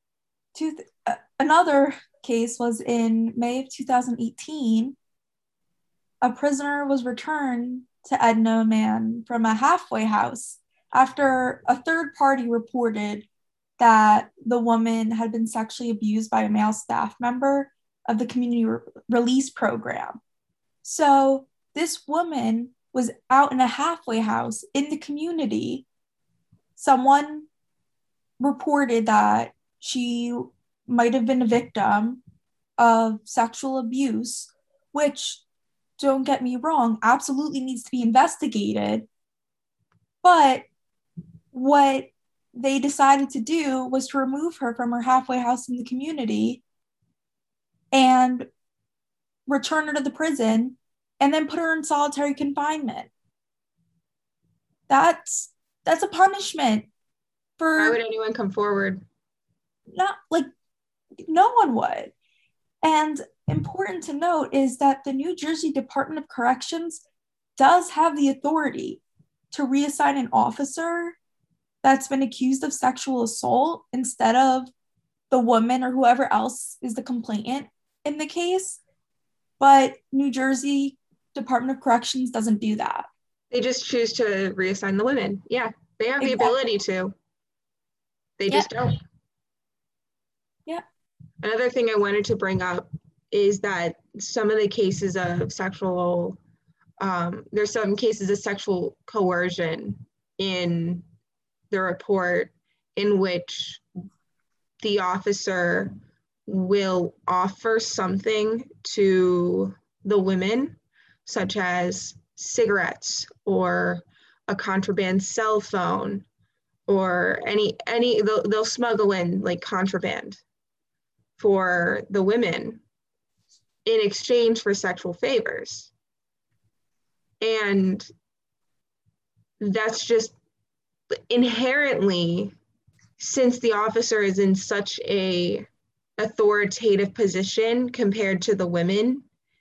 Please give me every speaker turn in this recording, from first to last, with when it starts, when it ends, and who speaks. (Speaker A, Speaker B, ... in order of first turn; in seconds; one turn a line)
Speaker A: 0.5-5.0
Speaker A: 6.2-13.3
Speaker A: 13.8-20.2
Speaker A: 20.8-25.9
Speaker A: 26.8-27.5
Speaker A: 28.4-32.2
Speaker A: 32.8-35.4
Speaker A: 36.0-39.0
Speaker A: 40.2-40.6
Speaker A: 41.5-46.6
Speaker A: 47.9-48.5
Speaker A: 49.5-53.1
Speaker A: 54.9-56.9
Speaker A: 57.6-58.0
Speaker B: 57.8-59.0
Speaker A: 59.9-60.5
Speaker A: 61.2-62.1
Speaker A: 62.8-67.0
Speaker A: 67.6-71.2
Speaker A: 71.8-74.7
Speaker A: 75.3-78.8
Speaker A: 79.6-83.1
Speaker B: 83.5-87.1
Speaker A: 86.2-86.5
Speaker B: 88.4-89.0
Speaker B: 91.4-96.4
Speaker B: 97.0-101.0
Speaker B: 101.7-103.8
Speaker B: 104.8-116.2
Speaker B: 116.9-120.4
Speaker B: 121.4-122.8
Speaker B: 123.8-125.9
Speaker B: 127.4-128.1
Speaker B: 129.6-130.4
Speaker B: 131.3-132.5
Speaker B: 133.2-139.2